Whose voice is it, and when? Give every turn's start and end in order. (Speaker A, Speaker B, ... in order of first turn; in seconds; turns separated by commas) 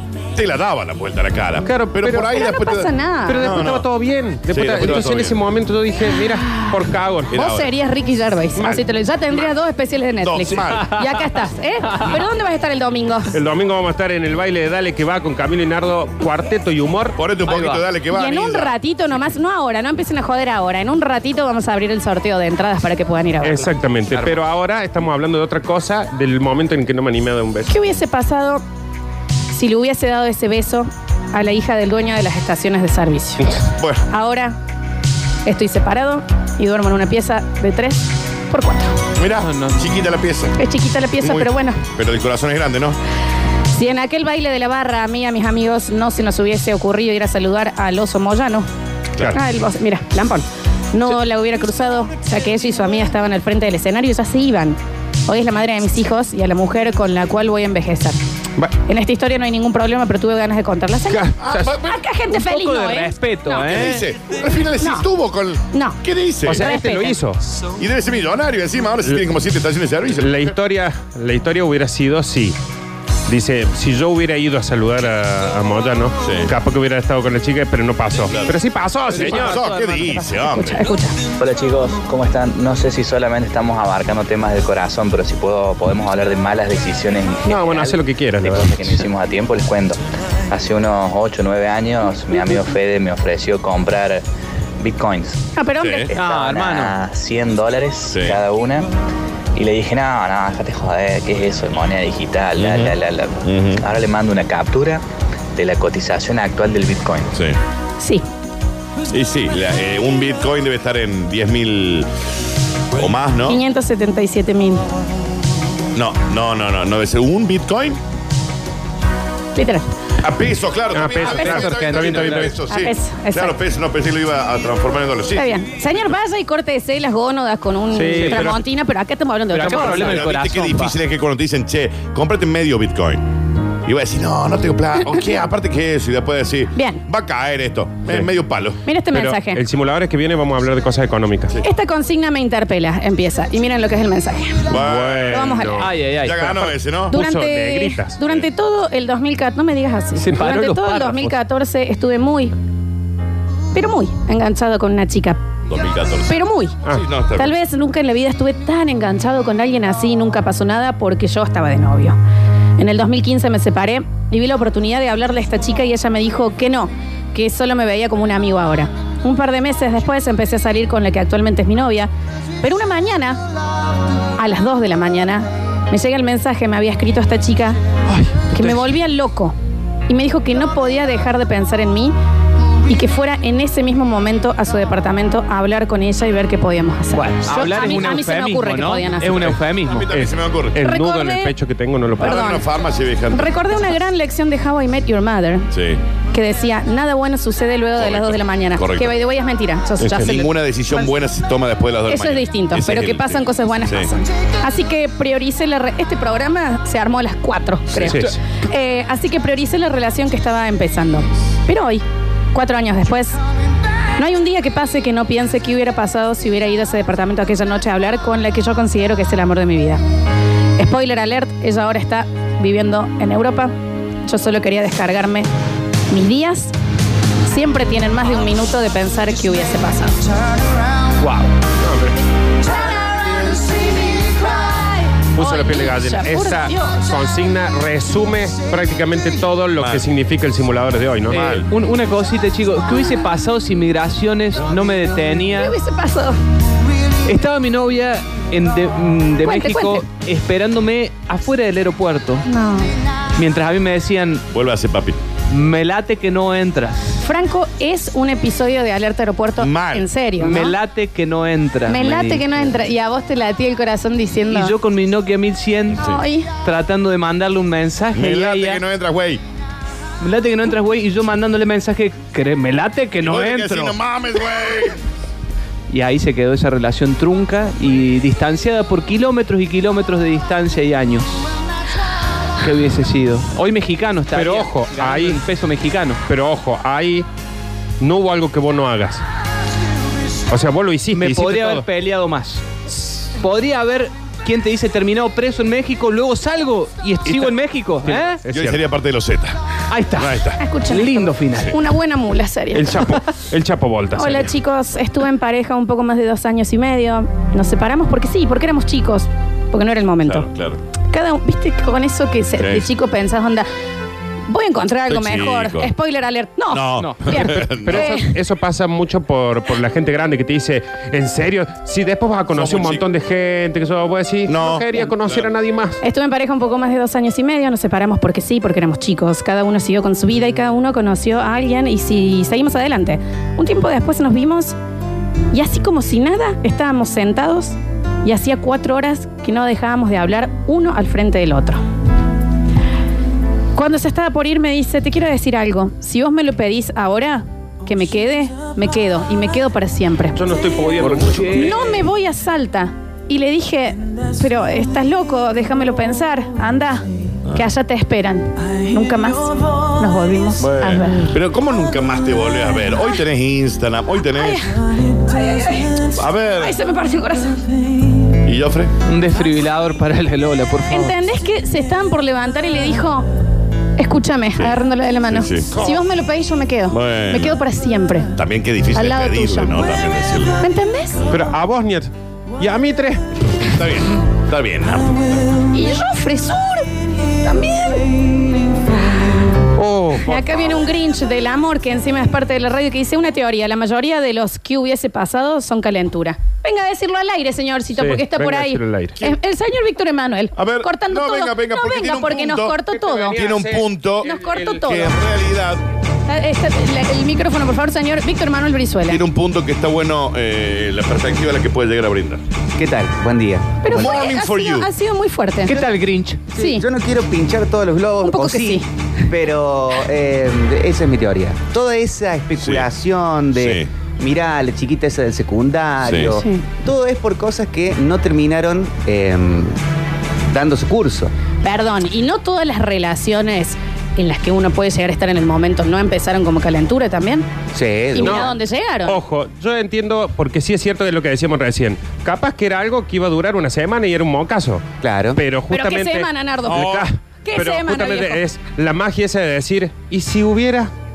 Speaker A: 0.3-3.9, Speaker B: 1.6-2.3, Speaker C: 2.2-3.5, Speaker B: 3.3-7.3, Speaker A: 4.5-5.4, Speaker A: 7.3-7.7, Speaker C: 7.3-13.3, Speaker A: 10.2-10.9, Speaker B: 13.3-17.2, Speaker A: 17.1-18.7, Speaker D: 17.4-17.8, Speaker C: 18.1-23.7, Speaker B: 23.4-27.7, Speaker C: 27.7-28.6, Speaker C: 29.5-33.5, Speaker A: 33.8-34.0, Speaker C: 34.1-34.5, Speaker C: 35.5-39.0, Speaker A: 39.2-40.5, Speaker D: 39.4-39.8, Speaker C: 40.6-41.8, Speaker A: 41.2-43.0, Speaker C: 43.7-48.7, Speaker C: 49.3-58.2, Speaker C: 58.9-63.7, Speaker B: 61.1-61.7, Speaker A: 61.4-62.0, Speaker D: 62.4-64.0, Speaker A: 63.6-66.6, Speaker C: 65.7-66.0, Speaker B: 66.5-67.4, Speaker C: 66.5-67.2, Speaker A: 67.8-70.5, Speaker B: 70.2-72.5, Speaker B: 73.3-79.8, Speaker A: 76.2-76.5, Speaker A: 78.3-78.6, Speaker D: 79.1-80.5, Speaker A: 79.1-80.9, Speaker C: 80.5-81.2, Speaker E: 81.4-94.2, Speaker B: 87.5-89.0, Speaker E: 94.8-95.4, Speaker C: 95.5-96.1, Speaker A: 95.8-96.1, Speaker D: 96.1-97.0, Speaker E: 96.1-98.9, Speaker A: 98.1-98.4, Speaker E: 99.5-105.0, Speaker A: 102.5-103.8, Speaker E: 105.5-107.3, Speaker A: 107.3-107.6, Speaker A: 109.1-112.1, Speaker A: 112.9-113.6, Speaker C: 113.5-114.8, Speaker A: 115.9-118.0, Speaker C: 119.5-119.8, Speaker A: 120.2-125.5, Speaker B: 120.9-122.5, Speaker D: 121.2-122.5, Speaker C: 122.7-123.5, Speaker C: 125.3-130.3, Speaker B: 127.9-128.6, Speaker D: 128.1-128.5, Speaker D: 129.5-131.0, Speaker B: 129.6-130.1, Speaker A: 129.9-133.2, Speaker A: 133.8-138.8, Speaker C: 136.7-137.0, Speaker C: 138.8-139.6, Speaker B: 139.1-141.6, Speaker C: 141.6-144.7, Speaker A: 144.7-145.4, Speaker B: 144.7-145.9, Speaker C: 145.3-145.8, Speaker D: 145.8-146.7, Speaker A: 146.2-147.1, Speaker B: 147.1-148.2, Speaker C: 147.1-152.5, Speaker D: 150.2-151.2, Speaker B: 150.3-150.5, Speaker C: 153.7-155.4, Speaker A: 155.7-157.6, Speaker C: 156.3-156.8, Speaker C: 157.3-162.2, Speaker C: 162.8-172.1, Speaker C: 172.6-173.4, Speaker C: 174.4-177.8, Speaker D: 178.1-178.8, Speaker C: 178.5-179.6, Speaker C: 180.1-182.1, Speaker C: 182.9-189.6, Speaker D: 187.1-190.1, Speaker A: 189.8-190.8, Speaker B: 190.1-192.4, Speaker C: 190.8-191.5, Speaker A: 192.2-193.7, Speaker C: 192.2-192.6, Speaker C: 193.3-195.7, Speaker A: 195.7-196.0, Speaker C: 196.3-200.5, Speaker A: 197.9-199.2, Speaker A: 200.0-204.1, Speaker C: 202.1-213.4, Speaker B: 208.0-208.3, Speaker C: 214.2-220.0, Speaker C: 220.8-223.7, Speaker C: 224.3-225.5, Speaker C: 226.1-226.7, Speaker C: 227.4-230.2, Speaker B: 231.8-232.1, Speaker C: 234.1-234.7, Speaker B: 235.3-241.5, Speaker C: 235.3-237.0, Speaker A: 239.8-240.1, Speaker D: 241.3-245.8, Speaker A: 241.3-241.7, Speaker C: 245.5-246.4, Speaker D: 247.2-252.4, Speaker C: 249.4-250.1, Speaker C: 252.4-252.9, Speaker D: 253.3-254.4, Speaker A: 254.5-255.2, Speaker D: 255.5-257.1, Speaker C: 257.2-260.8, Speaker A: 259.6-260.1, Speaker D: 260.4-262.8, Speaker C: 261.9-264.7, Speaker D: 264.5-268.8, Speaker C: 266.0-266.5, Speaker A: 268.1-269.4, Speaker D: 270.2-274.0, Speaker A: 273.2-275.0, Speaker D: 275.9-281.5, Speaker D: 282.6-286.2, Speaker B: 284.3-285.4, Speaker B: 286.3-287.2, Speaker B: 288.0-289.2, Speaker B: 290.5-291.9, Speaker D: 291.1-292.6, Speaker D: 293.4-298.4, Speaker B: 298.0-298.8, Speaker A: 298.5-299.6, Speaker D: 299.9-301.7, Speaker A: 300.1-300.6, Speaker C: 300.6-303.1, Speaker B: 302.7-304.5, Speaker C: 304.1-310.5, Speaker A: 310.2-310.8, Speaker C: 311.1-313.7, Speaker A: 312.6-312.9, Speaker C: 314.5-318.3, Speaker A: 315.1-315.9, Speaker A: 316.7-318.1, Speaker D: 317.0-317.2, Speaker B: 317.6-326.0, Speaker A: 322.5-323.0, Speaker A: 324.4-325.5, Speaker C: 326.0-334.8, Speaker C: 335.5-341.8, Speaker C: 343.7-350.4, Speaker B: 350.3-351.8, Speaker D: 351.0-351.7, Speaker C: 351.5-361.4, Speaker A: 360.6-364.6, Speaker C: 364.3-366.0, Speaker A: 366.1-366.8, Speaker C: 366.6-367.6, Speaker A: 368.4-368.9, Speaker D: 369.0-371.1, Speaker C: 370.9-373.3, Speaker C: 374.0-378.3, Speaker A: 375.3-375.9, Speaker A: 376.9-377.6, Speaker A: 378.4-380.6, Speaker C: 378.9-379.8, Speaker C: 380.6-381.2, Speaker B: 381.3-383.2, Speaker A: 383.5-385.4, Speaker C: 385.7-388.2, Speaker B: 389.8-390.5, Speaker C: 390.2-403.4, Speaker B: 398.0-399.2, Speaker A: 400.5-402.8, Speaker B: 402.9-405.1, Speaker A: 403.3-405.8, Speaker C: 404.2-405.1, Speaker C: 406.3-409.2, Speaker A: 409.1-412.4, Speaker F: 412.8-414.0, Speaker C: 413.8-415.8, Speaker A: 413.9-414.9, Speaker D: 415.6-416.5, Speaker C: 416.5-416.8, Speaker F: 416.6-429.8, Speaker C: 418.2-418.9, Speaker A: 422.6-422.9, Speaker A: 423.6-423.9, Speaker A: 426.0-426.4, Speaker C: 426.4-426.6, Speaker F: 430.5-431.3, Speaker C: 431.6-437.5, Speaker F: 437.7-438.5, Speaker C: 438.1-439.2, Speaker B: 438.2-438.5, Speaker B: 439.0-450.9, Speaker F: 445.0-445.4, Speaker C: 445.7-446.8, Speaker A: 446.7-447.1, Speaker C: 447.4-448.4